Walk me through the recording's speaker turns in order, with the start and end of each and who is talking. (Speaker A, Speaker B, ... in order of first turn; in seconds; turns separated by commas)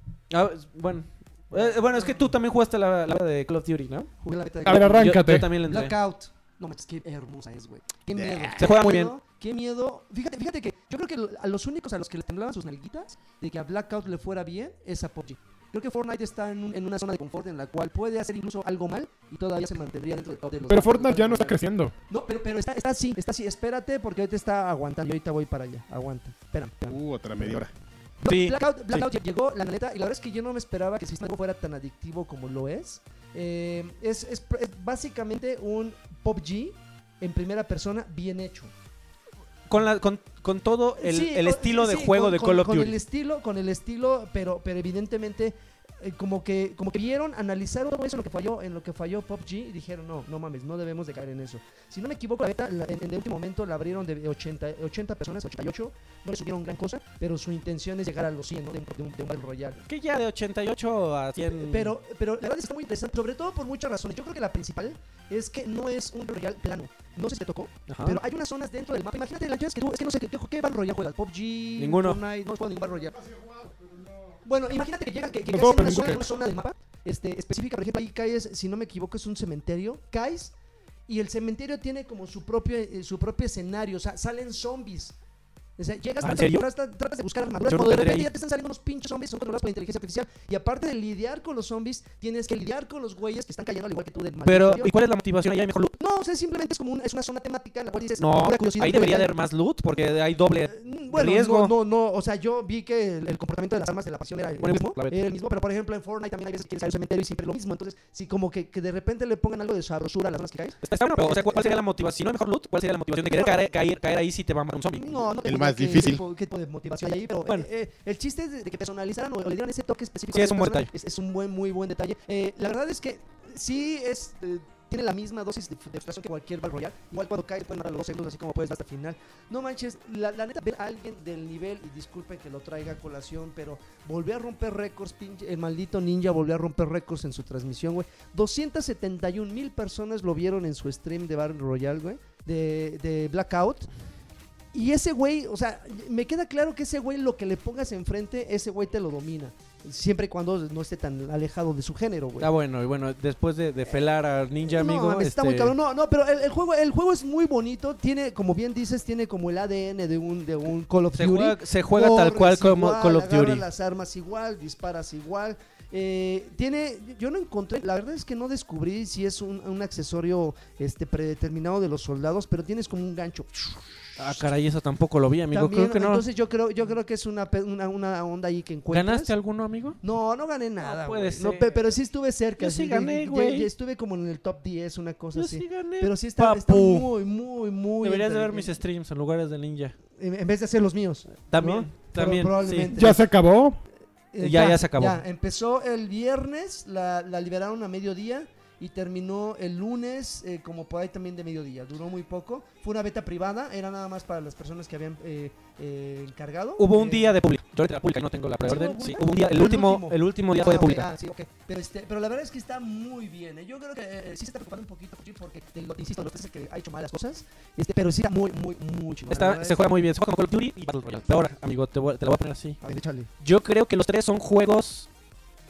Speaker A: 0.3-4.1, Speaker B: 1.5-2.2, Speaker B: 4.2-27.5, Speaker C: 4.6-5.5, Speaker A: 4.7-5.9, Speaker D: 8.1-8.7, Speaker A: 8.6-9.1, Speaker C: 20.7-21.9, Speaker D: 26.9-27.7, Speaker B: 28.2-38.7, Speaker A: 28.2-29.0, Speaker A: 39.7-43.0, Speaker B: 41.0-59.8, Speaker A: 59.8-61.9, Speaker B: 61.5-73.2, Speaker A: 67.9-68.2, Speaker A: 71.8-72.2, Speaker C: 73.1-74.4, Speaker B: 74.4-80.5, Speaker C: 75.5-76.3, Speaker B: 81.1-85.2, Speaker B: 85.8-94.9, Speaker A: 86.2-86.7, Speaker A: 87.7-88.3, Speaker A: 94.4-96.0, Speaker B: 96.0-99.3, Speaker A: 98.2-101.7, Speaker B: 100.7-111.8, Speaker A: 104.6-105.2, Speaker A: 110.8-115.2, Speaker B: 113.3-113.6, Speaker B: 115.0-143.9, Speaker D: 115.4-116.2, Speaker A: 120.3-120.9, Speaker B: 144.7-152.5, Speaker A: 152.4-155.7, Speaker B: 154.6-174.4, Speaker A: 161.1-163.7, Speaker A: 174.2-176.2, Speaker B: 175.5-179.3, Speaker A: 178.9-180.0, Speaker B: 180.0-188.8, Speaker A: 180.8-182.0, Speaker A: 182.6-183.7, Speaker A: 185.3-187.1, Speaker A: 188.0-189.9, Speaker B: 190.2-193.2, Speaker A: 191.4-192.9, Speaker C: 192.9-193.8, Speaker B: 194.3-207.4, Speaker A: 194.4-195.2, Speaker A: 206.8-211.1, Speaker B: 208.6-219.9, Speaker A: 219.3-222.8, Speaker B: 222.8-223.3, Speaker A: 223.4-225.1